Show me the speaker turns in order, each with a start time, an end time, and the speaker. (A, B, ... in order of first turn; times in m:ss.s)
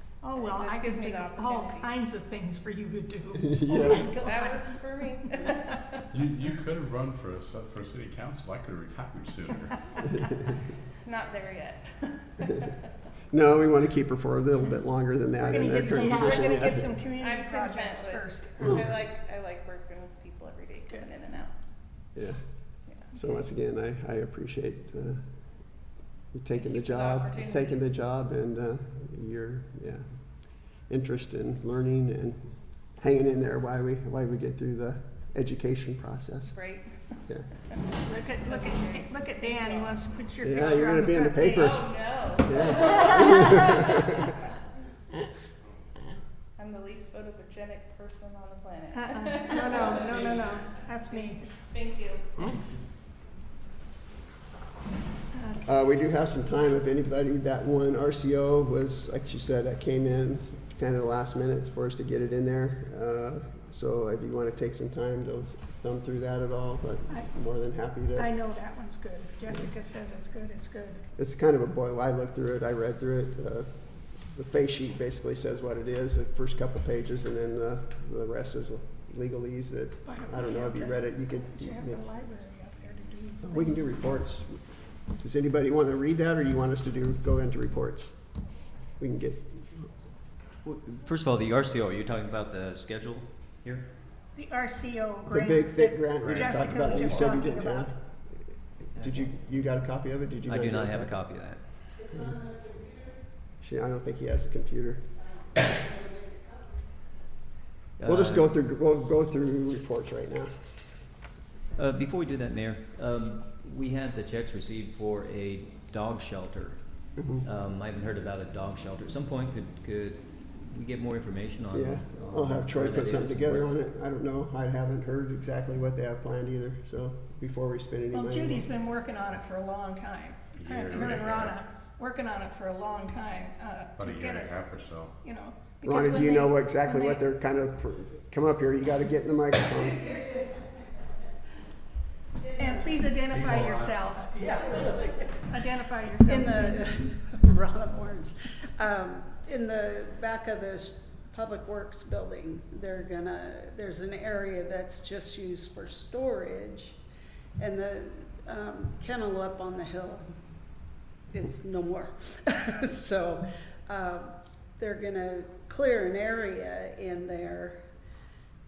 0:00.2-0:04.8 A
0:00.3-0:01.9 B
0:03.4-0:04.1 C
0:03.7-0:06.0 B
0:06.1-0:09.7 D
0:11.0-0:12.8 B
0:13.3-0:16.9 C
0:15.4-0:18.8 A
0:17.2-0:21.6 B
0:22.2-0:22.4 C
0:22.9-0:23.1 B
0:23.1-0:25.3 C
0:26.3-0:36.6 C
0:26.6-0:27.8 B
0:36.5-0:36.9 B
0:37.9-0:40.0 B
0:38.0-0:41.8 A
0:40.4-0:44.3 C
0:41.5-0:44.4 B
0:42.9-0:43.6 A
0:46.6-0:52.6 B
0:48.9-0:51.4 A
0:55.3-0:55.7 A
0:55.6-1:08.3 C
1:08.2-1:11.0 A
1:11.2-1:22.1 C
1:20.0-1:24.0 A
1:23.4-1:24.6 C
1:25.2-1:28.2 C
1:29.0-1:29.6 C
1:30.6-1:33.8 E
1:34.4-1:37.9 A
1:35.3-1:37.9 C
1:39.0-1:41.2 C
1:40.5-1:41.6 E
1:42.1-1:42.5 C
1:43.6-1:45.1 C
1:48.0-1:48.5 E
1:48.0-1:50.6 C
1:51.8-1:56.8 E
1:57.2-1:57.5 C
1:57.4-2:03.8 E
2:01.7-2:08.7 C
2:08.1-2:17.2 A
2:10.6-2:11.6 D
2:14.0-2:15.1 D
2:15.8-2:20.2 C
2:22.6-2:27.0 A
2:23.3-2:24.0 D
2:24.6-2:24.8 F
2:26.2-2:37.0 F
2:37.6-2:40.2 F
2:41.3-2:47.8 F